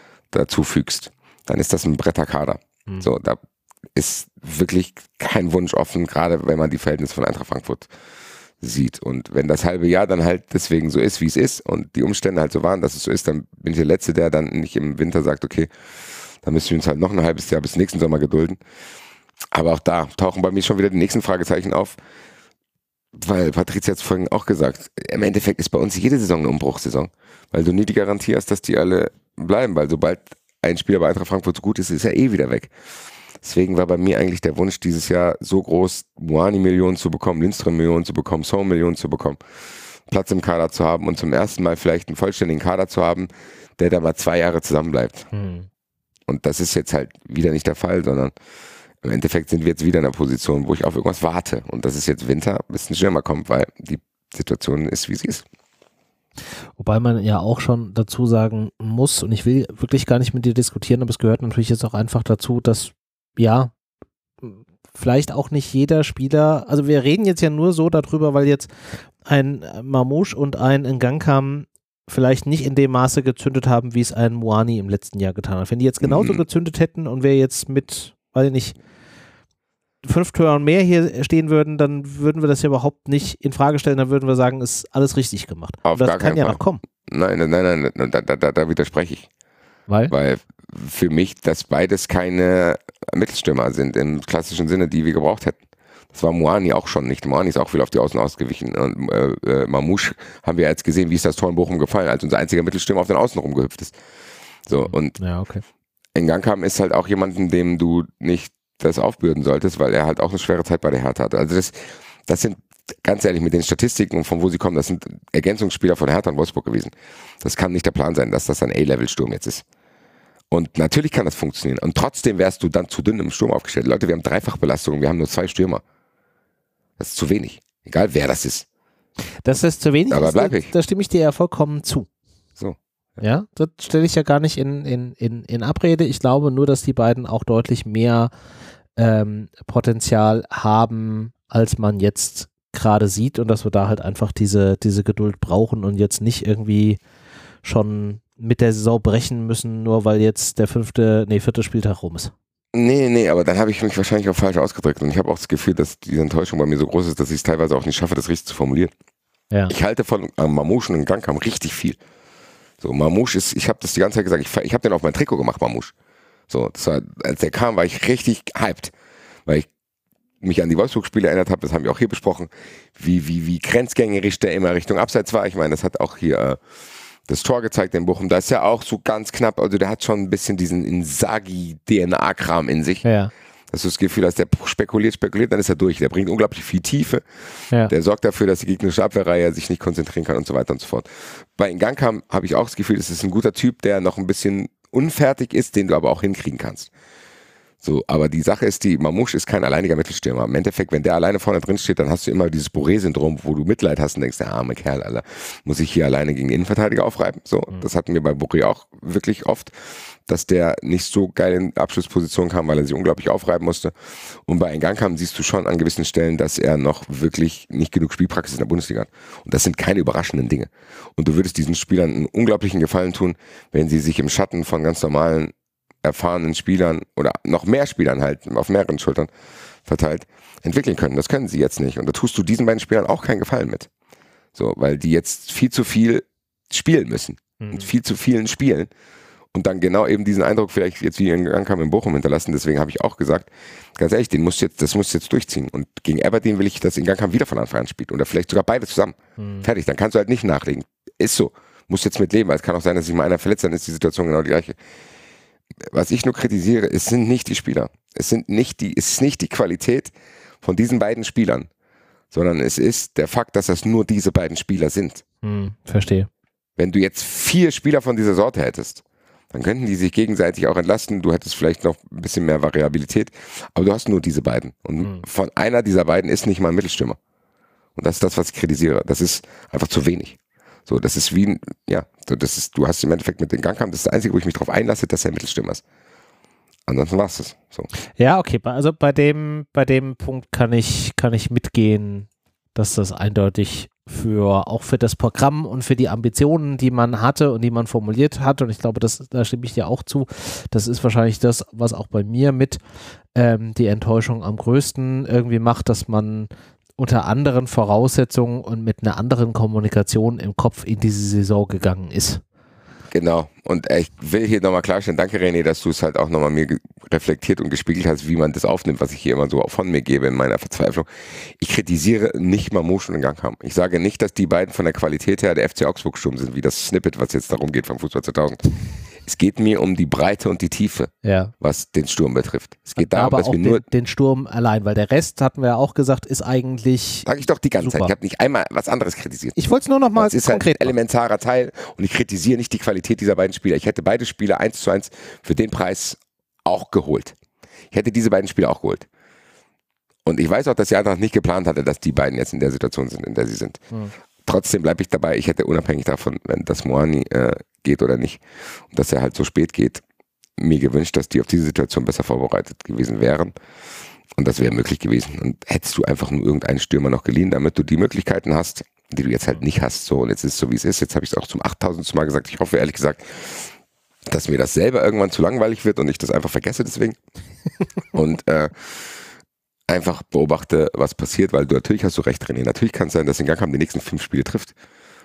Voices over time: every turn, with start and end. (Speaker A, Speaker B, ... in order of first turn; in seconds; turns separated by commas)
Speaker A: 0.3-3.4, Speaker A: 3.9-7.9, Speaker A: 8.6-15.7, Speaker A: 16.4-18.6, Speaker A: 19.5-21.9, Speaker A: 23.1-32.7, Speaker A: 33.4-39.4, Speaker A: 40.1-45.3, Speaker B: 45.3-45.7, Speaker A: 46.3-48.3, Speaker A: 49.0-55.4, Speaker B: 56.8-63.7, Speaker B: 64.4-68.7, Speaker B: 69.2-78.8, Speaker A: 76.0-76.4, Speaker B: 80.0-86.8, Speaker A: 85.8-89.3, Speaker B: 89.9-90.1, Speaker A: 90.1-95.6, Speaker A: 96.1-103.9, Speaker A: 104.7-105.2, Speaker B: 104.9-105.6, Speaker A: 106.1-119.6, Speaker A: 120.5-125.8, Speaker A: 127.0-128.7, Speaker B: 129.4-132.1, Speaker A: 130.1-130.7, Speaker A: 132.6-133.2, Speaker B: 133.2-138.3, Speaker B: 138.9-147.0, Speaker B: 147.6-152.3, Speaker A: 152.7-158.9, Speaker A: 159.7-162.0, Speaker A: 162.8-165.9, Speaker A: 166.5-168.9, Speaker A: 170.4-176.6, Speaker A: 177.2-183.0, Speaker B: 183.0-183.3, Speaker A: 183.7-187.2, Speaker A: 187.9-196.9, Speaker A: 197.8-209.7, Speaker A: 210.2-213.9, Speaker A: 214.4-229.3, Speaker A: 229.8-233.9, Speaker A: 234.5-238.9, Speaker B: 237.6-237.9, Speaker A: 239.5-254.8, Speaker B: 249.4-249.7, Speaker A: 255.8-261.7, Speaker A: 262.3-265.2, Speaker B: 265.4-266.3, Speaker A: 266.8-277.2, Speaker A: 277.9-285.8, Speaker A: 286.9-287.9, Speaker B: 288.2-302.8, Speaker B: 303.3-312.4, Speaker A: 313.1-328.6, Speaker A: 329.2-333.8, Speaker B: 331.2-331.5, Speaker B: 332.9-337.3, Speaker A: 337.2-339.6, Speaker B: 337.8-338.1, Speaker B: 339.6-340.9, Speaker A: 340.1-347.4, Speaker A: 347.9-349.1, Speaker A: 350.2-353.8, Speaker A: 354.4-360.0, Speaker A: 360.6-363.5, Speaker A: 364.4-373.7, Speaker A: 374.3-377.1, Speaker A: 378.1-379.2, Speaker A: 379.9-384.7